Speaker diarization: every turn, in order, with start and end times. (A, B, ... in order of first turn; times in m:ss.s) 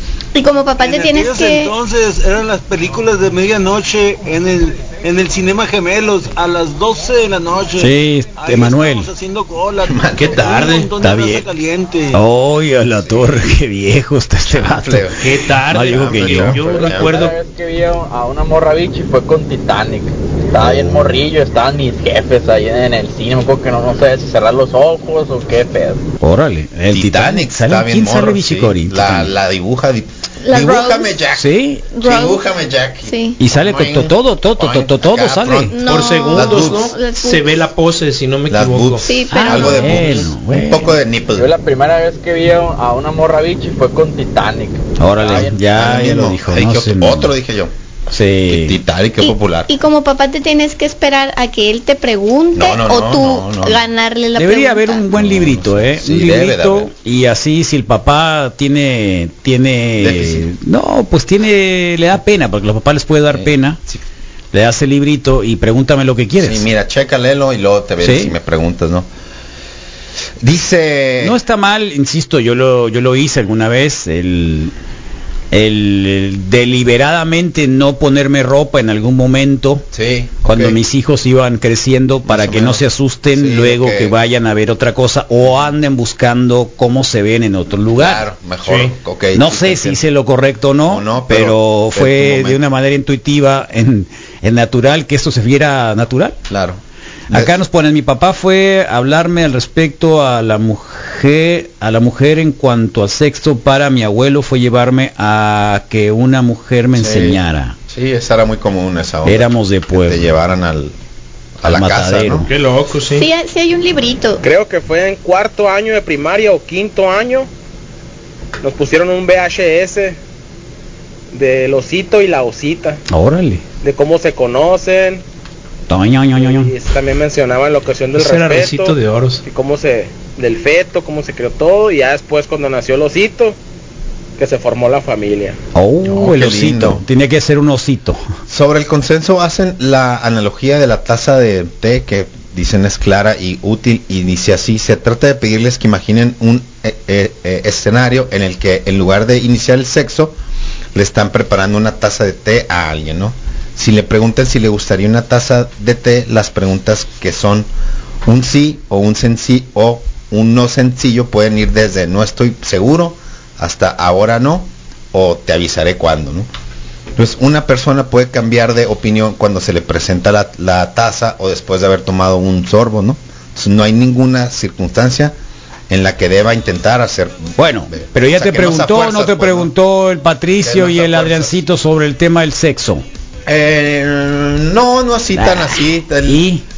0:00.3-0:01.7 A
0:00.8-0:12.2 B
0:07.8-0:09.1 C
0:09.8-0:10.4 D
0:10.1-0:10.9 E
0:11.0-0:11.4 C
0:12.1-0:15.1 C
0:14.5-0:17.2 D
0:15.2-0:17.4 E
0:15.7-0:16.6 C
0:16.6-0:26.0 F
0:20.6-0:21.2 D
0:26.2-0:29.3 C
0:26.9-0:36.9 D
0:30.4-0:31.1 A
0:31.3-0:31.9 C
0:31.9-0:32.4 A
0:33.0-0:33.4 A
0:33.4-0:35.7 C
0:35.7-0:37.6 A
0:35.8-0:39.1 E
0:38.5-0:41.5 D
0:39.0-0:40.0 A
0:39.3-0:41.0 C
0:41.3-0:45.5 F
0:45.0-0:47.3 C
0:45.2-0:47.7 D
0:48.1-0:48.8 C
0:48.5-0:49.7 D
0:49.2-0:55.1 A
0:52.5-0:53.8 D
0:54.3-1:03.8 C
0:55.1-0:56.9 D
1:00.0-1:00.4 D
1:03.3-1:03.9 D
1:04.5-1:06.7 C
1:06.4-1:09.1 D
1:08.0-1:08.3 C
1:10.4-1:11.4 D
1:11.2-1:14.7 C
1:15.5-1:19.8 C
1:19.9-1:20.8 D
1:20.4-1:28.2 C
1:22.2-1:24.1 D
1:28.0-1:30.0 D
1:28.6-1:28.9 E
1:29.3-1:36.4 C
1:30.9-1:32.6 D
1:36.5-1:36.8 D
1:37.3-1:37.6 D
1:37.3-1:47.8 C
1:47.0-1:50.9 D
1:49.2-1:50.3 C
1:51.6-1:52.5 D
1:51.6-1:52.5 C
1:52.5-1:53.3 E
1:53.2-1:54.4 A
1:54.4-1:57.5 G
1:58.6-2:00.2 G
2:01.3-2:03.0 G
2:03.1-2:03.6 C
2:03.8-2:05.2 G
2:05.9-2:06.7 C
2:06.4-2:08.9 G
2:08.1-2:09.4 E
2:09.4-2:13.6 G
2:14.4-2:15.6 G
2:15.7-2:18.2 C
2:16.0-2:17.0 D
2:18.5-2:30.4 D
2:30.9-2:37.7 D
2:38.2-2:46.5 D
2:47.2-2:55.3 D
2:55.9-2:59.7 D
2:57.6-3:03.0 C
3:00.6-3:01.6 D
3:03.4-3:06.4 D
3:05.3-3:06.6 C